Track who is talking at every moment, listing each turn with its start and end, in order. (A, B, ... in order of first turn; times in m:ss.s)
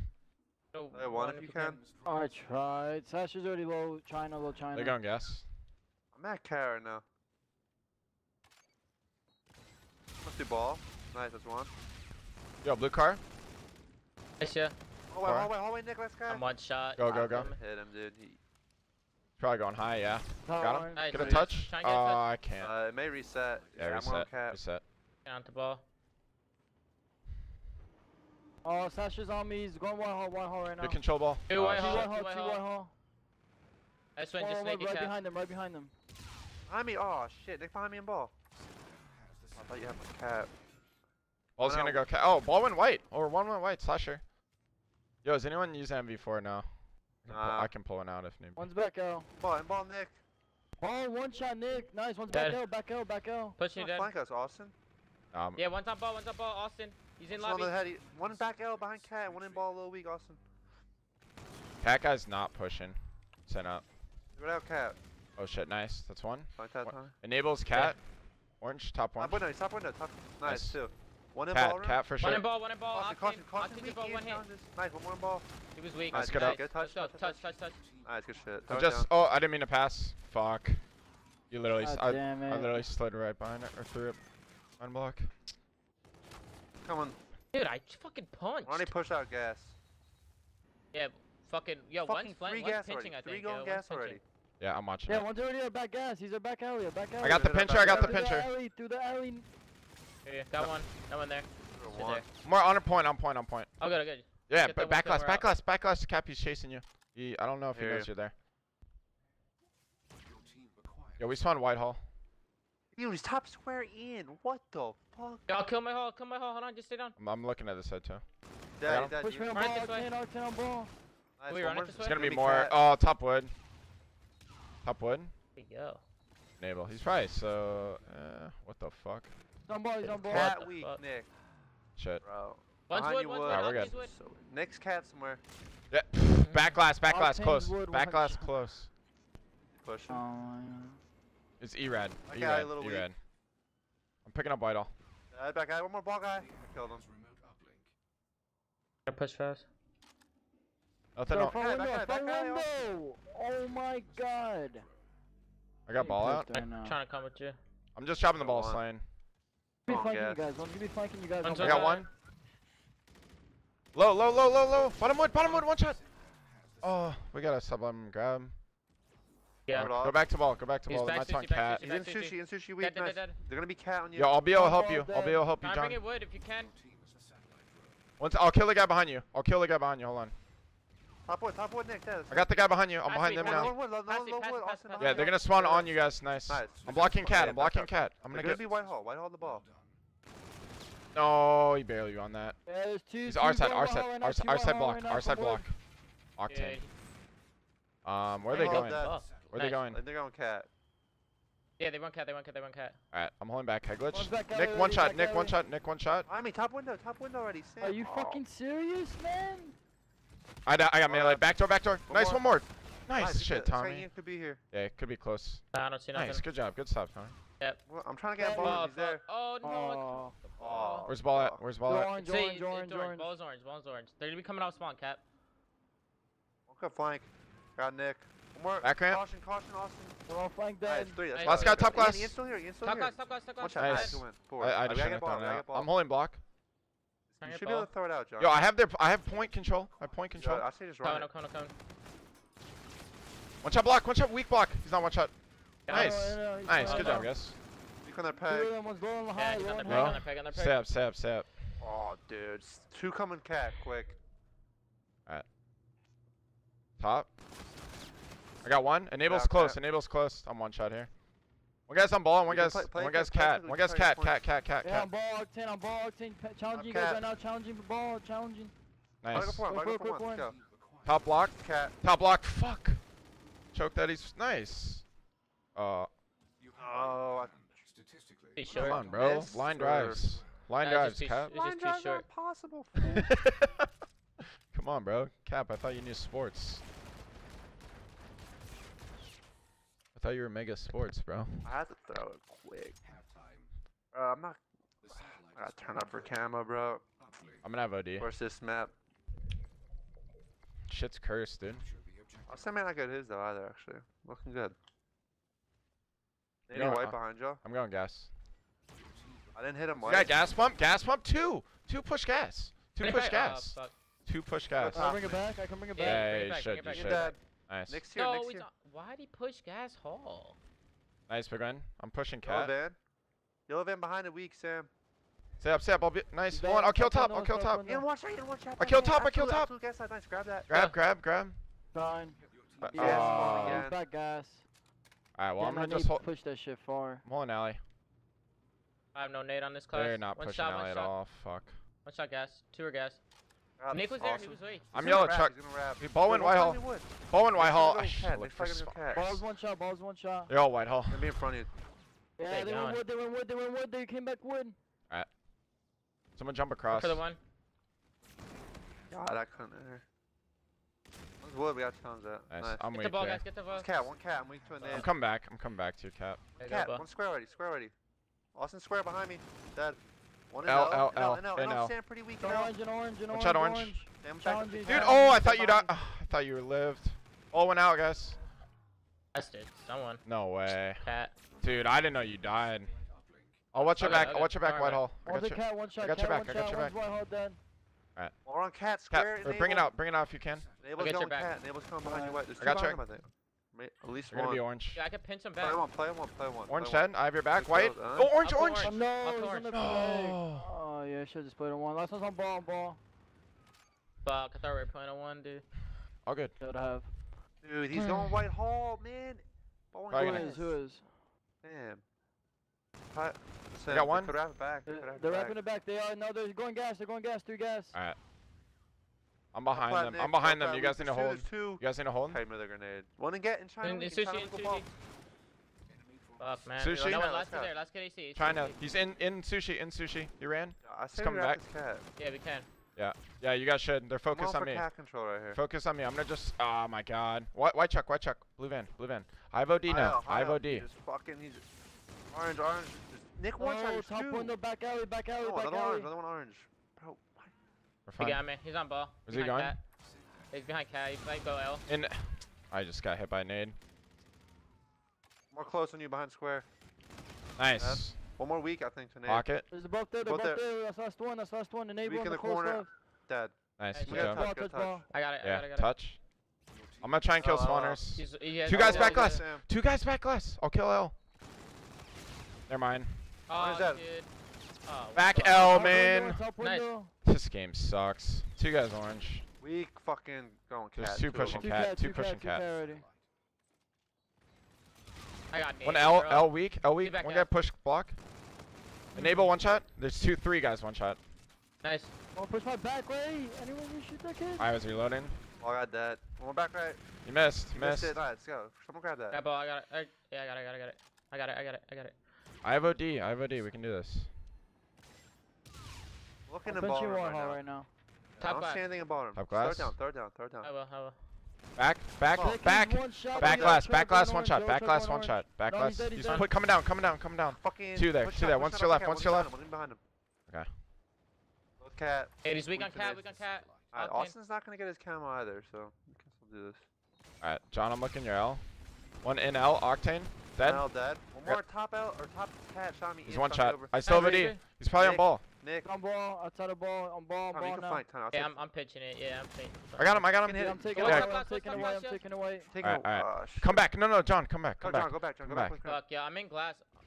0:00.7-0:01.8 A
0:00.9-0:01.8 B
0:02.0-0:05.0 C
0:04.7-0:05.5 D
0:06.1-0:07.0 B
0:10.2-0:11.7 B
0:12.6-0:13.2 D
0:14.4-0:14.8 A
0:15.1-0:16.4 B
0:15.2-0:15.5 D
0:16.3-0:17.6 A
0:17.0-0:17.5 D
0:17.1-0:18.4 B
0:19.4-0:22.7 D
0:20.5-0:21.1 C
0:21.0-0:22.2 A
0:22.6-0:24.6 B
0:23.8-0:24.8 D
0:25.2-0:25.8 A
0:28.6-0:31.0 C
0:30.8-0:32.1 D
0:31.5-0:32.6 A
0:31.7-0:32.9 C
0:34.2-0:35.2 A
0:34.4-0:35.9 C
0:36.7-0:38.3 B
0:39.6-0:40.5 B
0:41.6-0:44.2 D
0:41.6-0:42.1 B
0:45.2-0:46.7 D
0:47.2-0:48.7 D
0:47.3-0:47.7 B
0:48.6-0:49.3 C
0:49.3-0:50.2 B
0:50.8-0:53.6 C
0:52.3-0:52.6 A
0:53.6-0:54.1 A
0:53.8-0:54.7 B
0:55.3-0:55.6 D
0:55.6-0:57.9 A
0:57.3-1:00.4 B
1:01.8-1:03.8 D
1:04.4-1:05.0 B
1:05.4-1:08.0 D
1:06.6-1:07.2 B
1:07.7-1:08.0 A
1:08.6-1:09.4 D
1:09.2-1:12.0 B
1:10.4-1:10.8 D
1:11.5-1:12.4 D
1:12.2-1:14.4 A
1:12.9-1:15.5 B
1:15.8-1:17.8 A
1:16.1-1:19.1 B
1:16.1-1:16.6 D
1:18.7-1:20.8 D
1:21.5-1:24.2 D
1:21.8-1:22.9 C
1:24.8-1:25.3 D
1:26.8-1:27.2 B
1:27.5-1:28.9 A
1:28.6-1:29.8 B
1:30.9-1:34.2 A
1:32.0-1:34.2 B
1:34.6-1:35.3 D
1:35.1-1:39.5 C
1:37.2-1:38.5 D
1:37.2-1:38.2 B
1:40.2-1:42.3 A
1:41.7-1:42.2 B
1:42.4-1:43.7 D
1:43.8-1:45.5 A
1:44.5-1:48.3 D
1:47.7-1:48.1 B
1:51.2-1:52.0 D
1:53.0-1:55.4 B
1:55.5-1:57.2 A
1:57.2-1:58.2 D
1:58.8-1:59.6 B
1:58.8-1:59.1 D
1:59.2-2:00.9 C
1:59.5-2:00.1 A
2:01.4-2:02.8 B
2:01.5-2:02.3 A
2:02.0-2:03.5 D
2:04.8-2:05.3 D
2:05.6-2:06.0 A
2:06.6-2:09.3 D
2:09.7-2:10.5 C
2:10.1-2:11.0 A
2:10.1-2:11.3 B
2:12.0-2:12.2 D
2:12.2-2:15.4 B
2:12.9-2:14.1 A
2:13.4-2:13.9 D
2:15.9-2:18.9 D
2:16.4-2:16.8 A
2:17.1-2:18.5 C
2:19.8-2:20.2 B
2:20.1-2:21.0 C
2:21.6-2:23.2 D
2:22.3-2:23.1 B
2:24.2-2:24.9 D
2:25.3-2:27.1 B
2:29.1-2:29.7 A
2:31.2-2:31.6 D
2:31.3-2:34.9 C
2:31.5-2:32.9 B
2:35.9-2:36.5 D
2:36.0-2:37.0 C
2:36.5-2:37.6 A
2:38.0-2:39.0 D
2:38.4-2:38.8 B
2:39.9-2:40.4 B
2:39.9-2:42.0 C
2:41.4-2:42.0 A
2:41.6-2:42.1 D
2:43.9-2:46.0 D
2:46.8-2:48.6 D
2:49.7-2:50.2 B
2:49.7-2:51.9 D
2:50.9-2:53.4 A
2:51.8-2:54.3 B
2:54.2-2:56.0 D
2:54.5-2:55.5 C
2:55.6-2:56.7 A
2:58.2-3:00.4 D
3:01.3-3:02.6 B
3:02.3-3:03.7 D
3:03.0-3:05.4 A
3:03.4-3:05.9 B
3:05.0-3:08.7 D
3:06.5-3:09.7 B
3:11.1-3:12.6 D
3:12.7-3:15.7 C
3:13.2-3:15.8 D
3:16.4-3:16.8 D
3:16.5-3:16.9 A
3:18.0-3:20.0 D
3:18.5-3:19.8 A
3:18.5-3:19.2 B
3:19.8-3:20.7 B
3:21.8-3:23.0 A
3:23.1-3:26.3 D
3:24.1-3:25.6 C
3:26.3-3:28.4 B
3:27.8-3:29.8 C
3:30.7-3:34.1 D
3:31.1-3:31.5 B
3:32.1-3:32.5 B
3:33.1-3:34.6 B
3:34.7-3:37.4 D
3:35.7-3:36.4 A
3:37.9-3:39.2 B
3:38.4-3:38.8 C
3:38.6-3:41.1 A
3:39.6-3:40.3 C
3:40.6-3:41.6 B
3:41.1-3:42.1 D
3:41.9-3:43.3 C
3:42.2-3:45.2 A
3:46.7-3:50.2 B
3:48.8-3:49.2 D
3:50.3-3:51.2 C
3:50.8-3:55.9 B
3:51.3-3:52.0 A
3:51.4-3:52.4 D
3:52.8-3:54.2 A
3:53.8-3:56.4 D
3:57.3-3:58.6 B
3:57.4-3:57.9 A
3:58.4-4:00.7 D
4:00.3-4:01.3 B
4:01.0-4:01.7 A
4:03.6-4:05.3 D
4:05.9-4:06.1 A
4:05.9-4:07.3 C
4:05.9-4:07.6 D
4:06.9-4:07.2 A
4:08.0-4:08.7 B
4:08.4-4:10.2 C
4:09.4-4:10.8 A
4:09.9-4:11.7 D
4:11.8-4:14.2 B
4:17.0-4:17.3 D
4:18.6-4:21.1 D
4:19.2-4:19.8 B
4:21.9-4:25.1 D
4:22.5-4:24.4 B
4:24.8-4:28.7 C
4:26.7-4:27.2 B
4:29.2-4:29.7 D
4:29.3-4:30.6 B
4:29.4-4:30.5 C
4:31.0-4:33.0 D
4:31.6-4:32.0 B
4:33.7-4:35.0 D
4:35.8-4:36.1 D
4:36.8-4:37.8 B
4:38.6-4:39.0 A
4:38.6-4:40.4 B
4:38.7-4:41.5 D
4:40.8-4:42.3 A
4:41.5-4:43.3 B
4:43.1-4:43.9 D
4:44.7-4:46.8 D
4:50.2-4:51.7 D
4:51.6-4:53.0 B
4:54.1-4:57.0 B
4:57.6-4:58.3 D
4:58.2-4:58.9 B
5:00.9-5:01.9 D
5:02.5-5:04.8 B
5:06.7-5:07.6 B
5:06.7-5:08.3 D
5:09.5-5:10.3 B
5:10.0-5:15.2 D
5:13.0-5:13.9 A
5:14.8-5:15.5 B
5:14.9-5:16.3 C
5:16.0-5:17.4 A
5:16.0-5:18.0 D
5:16.9-5:18.6 B
5:18.1-5:20.6 A
5:21.3-5:22.7 D
5:22.4-5:23.0 B
5:23.7-5:24.9 B
5:25.6-5:27.8 D
5:26.5-5:28.0 C
5:27.8-5:30.7 B
5:28.8-5:29.7 D
5:30.7-5:31.6 D
5:30.7-5:31.0 A
5:31.9-5:34.6 C
5:32.8-5:33.9 D
5:33.0-5:34.0 B
5:35.4-5:36.3 D
5:35.6-5:37.2 C
5:37.2-5:37.8 D
5:39.2-5:41.1 A
5:39.9-5:41.8 D
5:42.0-5:43.2 A
5:43.8-5:49.4 B
5:43.9-5:44.9 A
5:44.9-5:49.0 D
5:49.1-5:50.5 C
5:50.5-5:51.4 D
5:51.1-5:51.7 B
5:52.4-5:54.8 C
5:52.5-5:53.0 A
5:56.4-5:57.2 D
5:56.9-5:57.4 A
5:59.1-6:00.0 B
6:01.4-6:02.9 B
6:02.5-6:03.5 D
6:02.9-6:03.9 A
6:03.7-6:05.1 B
6:04.9-6:06.4 D
6:06.6-6:07.0 A
6:06.6-6:07.9 B
6:08.6-6:10.0 B
6:10.5-6:12.7 B
6:10.6-6:11.9 D
6:12.4-6:15.9 C
6:13.3-6:14.0 D
6:14.2-6:15.4 B
6:14.8-6:18.4 D
6:19.3-6:20.2 A
6:20.3-6:21.0 D
6:21.0-6:21.3 A
6:21.6-6:22.9 D
6:23.7-6:27.0 D
6:23.8-6:24.3 B
6:24.0-6:25.0 A
6:25.2-6:27.6 C
6:28.4-6:29.9 B
6:29.1-6:30.7 D
6:30.8-6:34.6 B
6:31.0-6:31.5 A
6:32.0-6:32.4 C
6:32.6-6:33.0 D
6:34.3-6:35.0 D
6:35.0-6:35.8 A
6:35.6-6:38.3 B
6:36.7-6:39.0 D
6:38.4-6:39.7 A
6:38.8-6:43.0 C
6:39.7-6:40.7 D
6:44.2-6:45.7 A
6:46.3-6:46.5 D
6:46.6-6:47.1 C
6:47.6-6:50.8 B
6:48.0-6:48.3 D
6:50.1-6:50.5 D
6:50.1-6:51.1 C
6:51.6-6:52.0 B
6:53.1-6:55.6 B
6:53.9-6:54.4 D
6:54.9-6:58.0 C
6:59.5-7:02.4 D
6:59.7-7:04.9 B
7:03.8-7:04.9 A
7:06.4-7:08.8 A
7:06.8-7:07.2 D
7:06.9-7:07.7 B
7:08.4-7:11.6 D
7:10.8-7:12.1 B
7:12.2-7:12.7 A
7:13.0-7:14.9 D
7:14.3-7:15.6 B
7:15.5-7:20.9 D
7:19.9-7:21.7 B
7:22.3-7:24.6 B
7:23.6-7:26.1 C
7:25.4-7:27.5 B
7:28.1-7:28.4 D
7:28.2-7:29.8 A
7:29.3-7:29.8 D
7:30.5-7:31.9 A
7:31.9-7:33.8 D
7:35.5-7:36.7 B
7:37.6-7:38.2 D
7:37.8-7:39.4 B
7:39.3-7:39.7 D
7:39.7-7:42.9 C
7:40.2-7:40.6 B
7:42.0-7:45.0 B
7:43.8-7:44.5 D
7:43.9-7:44.3 A
7:44.1-7:45.0 C
7:45.1-7:45.9 A
7:45.4-7:46.2 D
7:47.0-7:51.2 D
7:47.4-7:48.0 B
7:48.1-7:49.4 A
7:48.6-7:49.7 B
7:52.7-7:53.2 D
7:53.5-7:54.3 A
7:53.5-7:54.0 B
7:54.8-7:55.9 A
7:55.1-7:56.4 D
7:55.6-7:57.1 C
7:56.6-7:56.9 A
7:57.2-7:59.5 D
7:59.6-8:01.8 B
8:01.0-8:02.7 D
8:01.4-8:03.0 C
8:05.5-8:07.5 A
8:05.8-8:08.2 D
8:09.2-8:11.2 D
8:09.2-8:09.4 C
8:11.8-8:12.1 A
8:12.4-8:14.7 C
8:14.6-8:15.4 D
8:15.6-8:17.0 B
8:17.2-8:18.2 D
8:17.7-8:19.4 B
8:19.3-8:22.2 A
8:22.6-8:24.3 D
8:26.5-8:27.6 B
8:26.6-8:27.9 C
8:28.4-8:28.8 A
8:28.4-8:30.7 B
8:29.3-8:30.0 D
8:30.6-8:31.2 A
8:31.8-8:39.5 D
8:32.3-8:32.6 B
8:32.4-8:36.5 C
8:33.3-8:33.8 B
8:36.2-8:36.5 A
8:37.6-8:40.0 B
8:41.8-8:46.8 B
8:42.4-8:44.4 A
8:47.4-8:48.6 D
8:49.2-8:50.9 D
8:50.6-8:55.9 B
8:53.3-8:55.4 D
8:54.0-8:54.6 A
8:55.8-8:58.0 C
8:57.5-8:58.6 B
8:58.3-9:00.2 A
9:00.0-9:01.3 D
9:00.4-9:01.2 B
9:00.5-9:02.7 C
9:01.0-9:02.2 A
9:02.7-9:03.8 B
9:02.8-9:05.8 D
9:04.8-9:06.0 B
9:05.8-9:06.8 A